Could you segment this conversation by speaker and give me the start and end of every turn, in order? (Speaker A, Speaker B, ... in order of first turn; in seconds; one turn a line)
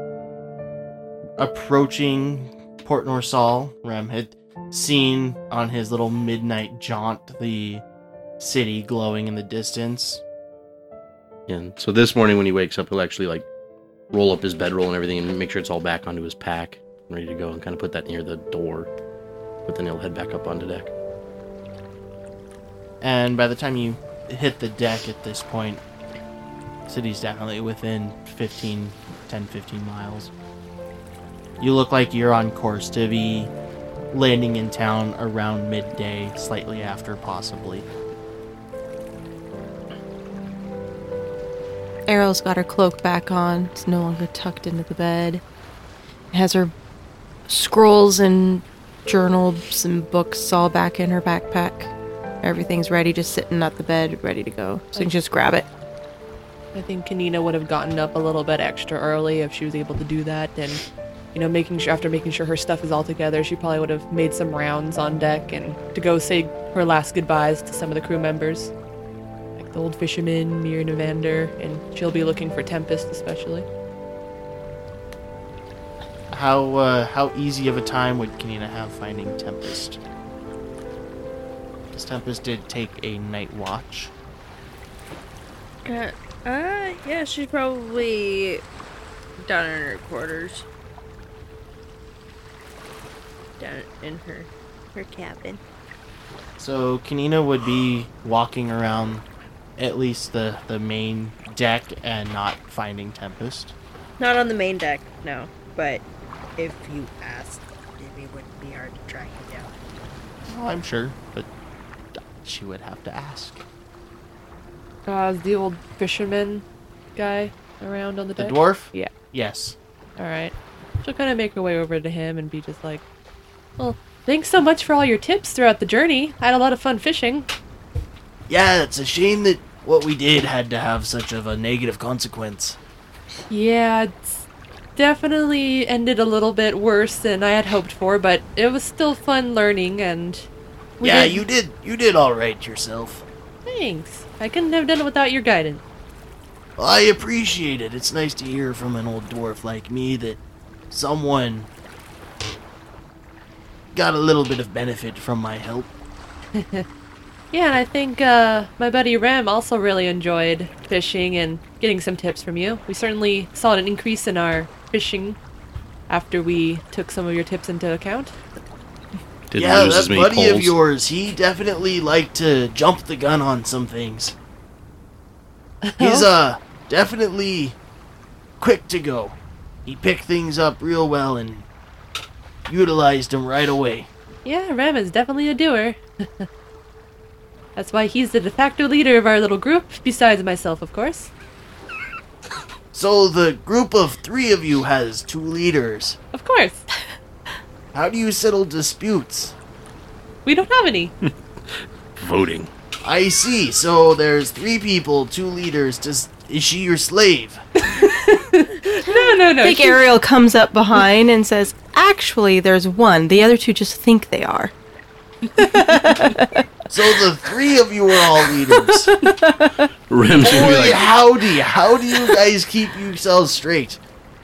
Speaker A: 1.4-7.8
Speaker A: 8.4-10.2
Speaker B: 11.5-13.5
Speaker B: 14.1-18.9
Speaker B: 19.7-20.9
Speaker A: 23.0-25.8
Speaker A: 26.9-30.3
Speaker A: 31.6-33.5
Speaker A: 34.1-37.9
Speaker C: 42.1-45.4
Speaker C: 46.3-46.7
Speaker C: 47.5-55.7
Speaker D: 56.8-60.8
Speaker D: 61.3-68.7
Speaker D: 69.6-73.7
Speaker A: 76.3-80.0
Speaker A: 81.9-84.1
Speaker E: 85.8-88.6
Speaker E: 89.4-90.7
Speaker E: 93.6-95.6
Speaker A: 96.6-99.2
Speaker A: 99.8-103.8
Speaker E: 104.2-106.0
Speaker E: 106.6-109.8
Speaker A: 110.5-111.5
Speaker A: 112.2-113.6
Speaker D: 115.1-116.6
Speaker D: 117.2-119.1
Speaker A: 118.4-119.8
Speaker D: 120.2-123.0
Speaker D: 123.8-127.5
Speaker A: 128.5-132.8
Speaker D: 133.5-140.5
Speaker D: 141.0-141.4
Speaker A: 141.0-143.2
Speaker D: 143.7-145.8
Speaker A: 146.8-151.7
Speaker A: 153.9-155.9
Speaker D: 156.6-156.9
Speaker D: 157.5-165.4
Speaker D: 166.1-168.4
Speaker B: 169.5-170.8
Speaker A: 169.6-174.3
Speaker D: 175.8-176.3
Speaker A: 176.0-177.8
Speaker A: 178.6-181.7
Speaker A: 182.7-184.1
Speaker D: 184.4-186.5
Speaker D: 187.8-191.3
Speaker A: 192.9-196.2
Speaker D: 196.3-196.9
Speaker A: 197.9-199.5
Speaker D: 200.4-201.1
Speaker B: 201.2-202.7
Speaker A: 203.0-207.6
Speaker D: 207.8-210.1
Speaker C: 209.6-214.7
Speaker C: 215.6-216.6
Speaker D: 216.0-216.3
Speaker A: 216.9-219.2
Speaker C: 218.7-219.7
Speaker B: 220.1-221.1
Speaker A: 220.4-224.0